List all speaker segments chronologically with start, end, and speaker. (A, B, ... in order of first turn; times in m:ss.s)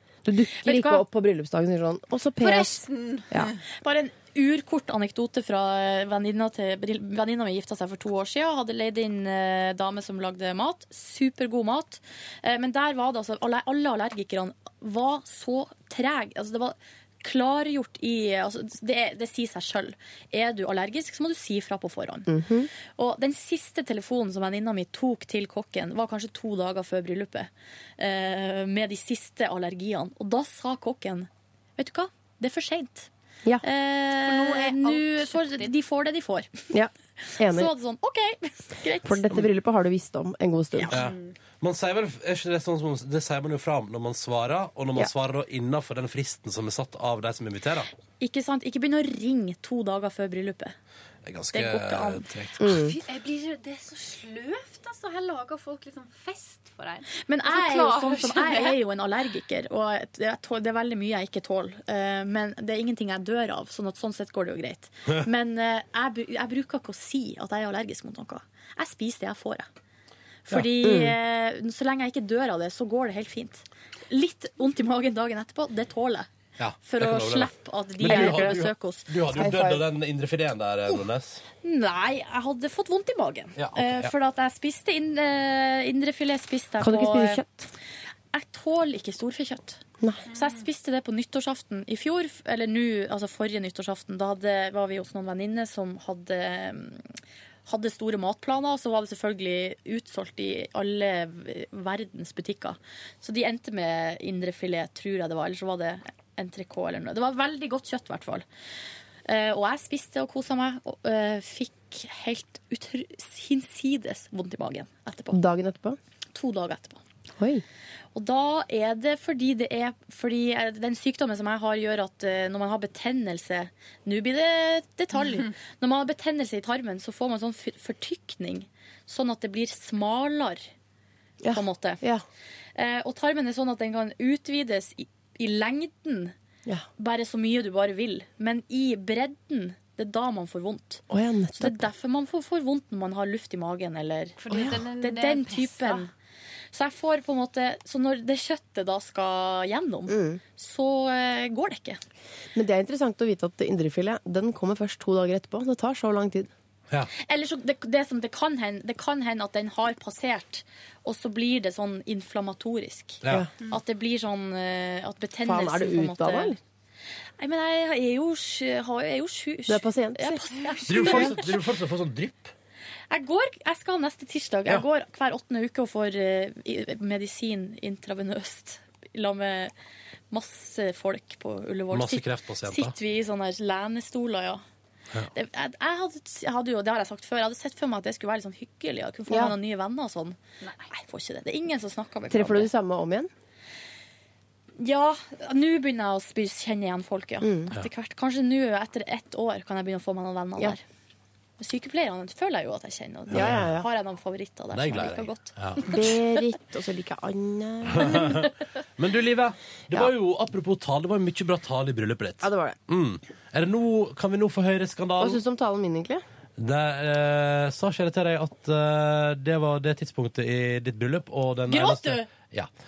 0:00.2-0:03.5 A
0:00.6-0:01.0 B
0:02.4-0:03.6 C
0:03.8-0:22.3 B
0:22.3-0:22.7 A
0:23.0-0:33.1 B
0:33.6-0:36.7 B
0:34.2-0:35.7 C
0:36.7-0:37.7 A
0:37.3-0:39.4 B
0:39.0-0:41.0 A
0:40.9-0:47.9 D
0:40.9-0:41.3 C
0:48.2-0:50.7 B
0:51.2-0:52.7 D
0:51.5-0:52.2 B
0:52.6-0:53.0 A
0:52.7-0:58.8 C
0:57.2-1:09.7 B
1:10.4-1:16.3 B
1:10.8-1:11.2 A
1:16.6-1:21.4 D
1:16.8-1:19.1 B
1:18.0-1:18.6 A
1:19.3-1:19.8 A
1:21.6-1:27.4 B
1:23.6-1:24.1 D
1:26.8-1:27.7 A
1:28.3-1:37.0 B
1:37.6-1:48.4 B
1:49.2-1:55.4 B
1:55.3-1:56.0 A
1:56.3-1:57.0 B
1:57.4-1:57.6 A
1:58.1-2:10.7 B
2:11.4-2:12.2 A
2:11.5-2:12.0 B
2:12.8-2:16.3 B
2:17.0-2:21.0 B
2:21.1-2:21.9 A
2:21.6-2:24.4 B
2:24.4-2:26.1 C
2:24.9-2:26.1 B
2:26.7-2:32.0 B
2:30.1-2:30.4 A
2:32.5-2:36.5 A
2:37.2-2:46.5 B
2:43.2-2:43.5 D
2:45.4-2:46.6 A
2:47.4-2:51.5 B
2:49.7-2:50.4 A
2:50.9-2:52.5 D
2:51.0-2:51.3 A
2:53.1-2:59.7 B
3:00.3-3:04.6 B
3:01.9-3:02.9 D
3:05.3-3:10.4 B
3:09.3-3:09.5 A
3:10.6-3:10.9 C
3:10.9-3:12.7 B
3:12.3-3:13.3 A
3:14.8-3:20.8 B
3:17.4-3:17.7 A
3:21.6-3:26.0 B
3:23.3-3:23.7 D
3:23.3-3:23.9 A
3:24.7-3:25.9 D
3:25.8-3:28.5 A
3:27.9-3:35.4 D
3:32.4-3:32.8 A
3:35.2-3:36.2 A
3:36.6-3:42.7 D
3:41.7-3:42.3 B